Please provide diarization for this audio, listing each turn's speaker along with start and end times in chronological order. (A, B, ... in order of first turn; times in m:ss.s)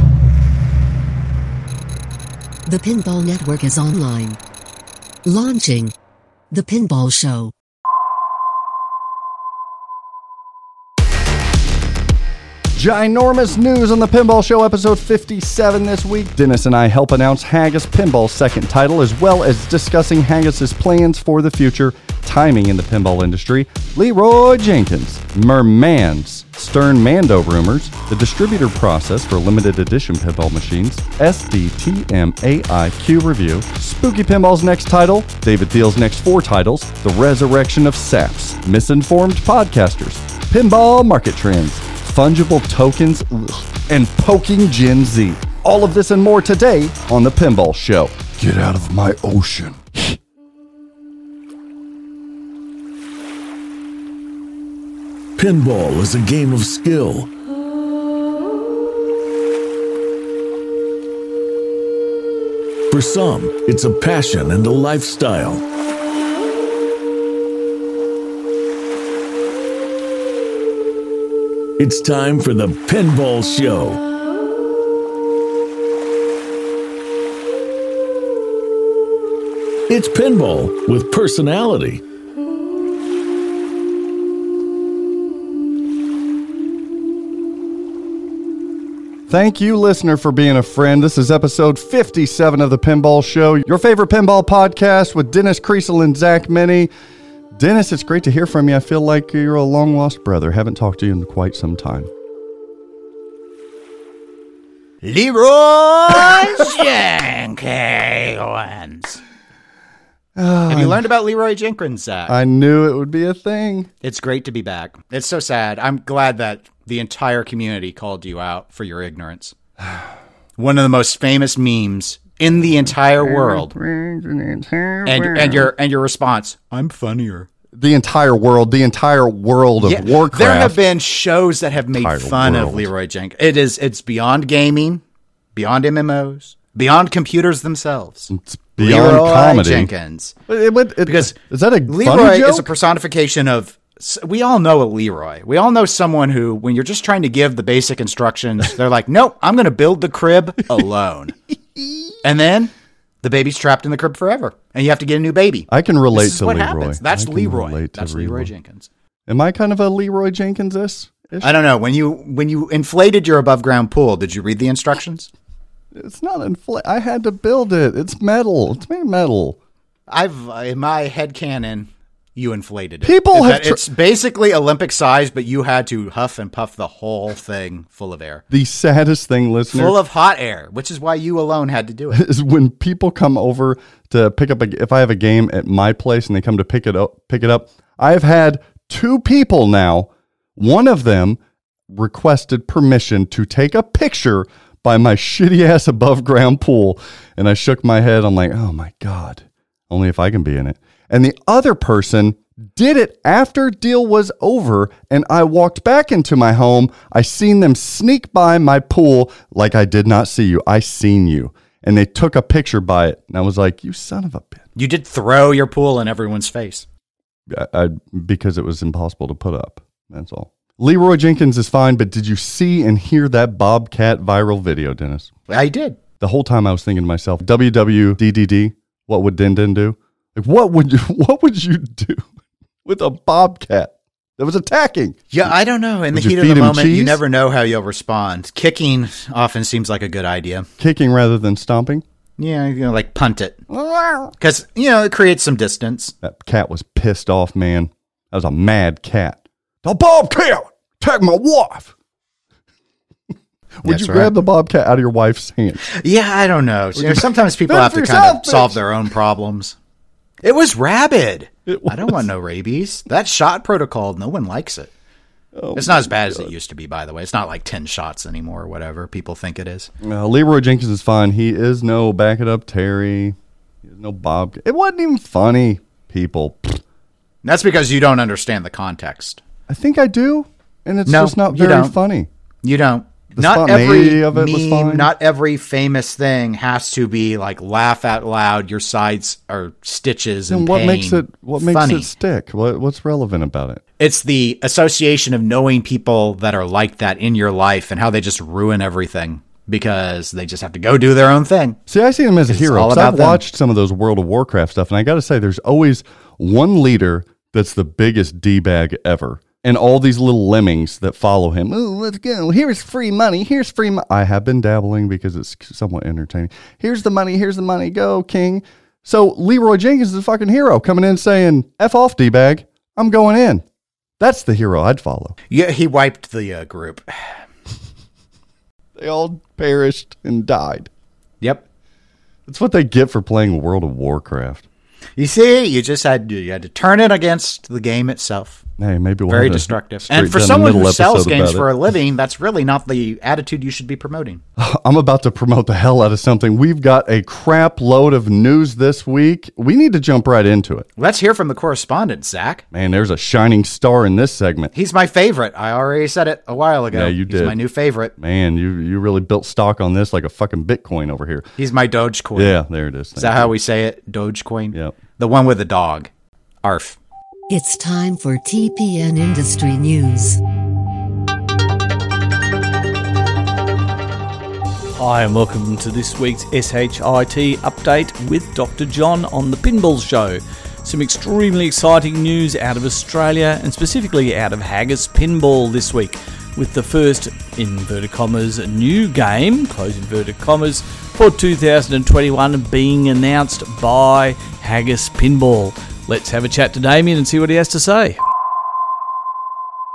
0:02.6-0:04.4 A
0:05.3-0:05.9 A
0:06.5-0:07.5 A
0:12.8-0:50.2 B
0:55.4-0:57.3 C
1:02.9-1:05.6 C
1:11.8-1:14.0 C
1:19.9-1:22.0 C
1:29.3-1:36.9 B
1:37.6-1:42.1 B
1:45.0-1:49.2 D
1:50.4-1:51.1 B
1:50.7-1:52.4 D
1:52.3-1:53.9 B
1:54.0-1:59.5 D
2:00.6-2:03.7 D
2:02.5-2:05.7 B
2:05.1-2:07.5 D
2:07.7-2:10.8 B
2:09.8-2:15.0 D
2:11.9-2:12.9 B
2:15.5-2:20.3 D
2:18.3-2:19.9 B
2:20.5-2:22.7 B
2:21.1-2:21.3 D
2:21.9-2:31.3 D
2:31.8-2:32.2 B
2:32.2-2:32.7 D
2:33.2-2:38.9 D
2:35.7-2:38.5 B
2:39.3-2:41.5 B
2:41.4-2:45.3 D
2:45.9-2:49.6 B
2:50.1-2:58.4 D
2:53.0-2:53.8 B
2:58.5-3:00.0 B
2:59.7-3:02.2 D
3:02.1-3:11.4 B
3:11.9-3:34.6 B
3:34.8-3:36.8 D
3:37.5-3:45.3 B
3:45.5-3:46.0 D
3:46.2-3:52.3 B
3:52.8-3:55.5 B
3:55.3-4:00.7 D
3:56.1-3:57.2 B
4:00.8-4:02.0 B
4:02.4-4:03.6 D
4:03.7-4:04.3 B
4:04.4-4:06.1 D
4:06.2-4:11.9 B
4:13.8-4:15.9 B
4:13.9-4:14.3 D
4:15.9-4:19.8 D
4:17.0-4:18.8 B
4:20.4-4:24.9 D
4:21.7-4:22.3 B
4:25.6-4:26.5 B
4:25.8-4:29.9 D
4:30.0-4:36.8 B
4:37.4-4:39.4 D
4:39.7-4:42.3 B
4:41.1-4:41.9 D
4:42.6-4:52.1 D
4:43.3-4:45.1 B
4:50.5-4:53.8 B
4:54.0-5:01.8 D
5:01.9-5:23.6 B
5:02.5-5:03.4 D
5:24.2-5:25.4 B
5:25.5-5:27.4 D
5:29.0-5:30.9 B
5:32.5-5:34.6 B
5:35.2-5:38.6 D
5:38.8-5:41.7 B
5:39.3-5:44.4 D
5:44.6-5:50.9 B
5:51.0-5:52.6 D
5:52.7-5:54.7 B
5:54.7-5:58.1 D
5:56.9-5:57.6 B
5:58.2-6:01.5 B
6:01.6-6:02.6 D
6:02.4-6:03.5 B
6:03.2-6:06.1 D
6:04.7-6:05.0 B
6:06.6-6:07.0 D
6:07.5-6:10.4 A
6:15.0-6:38.2 E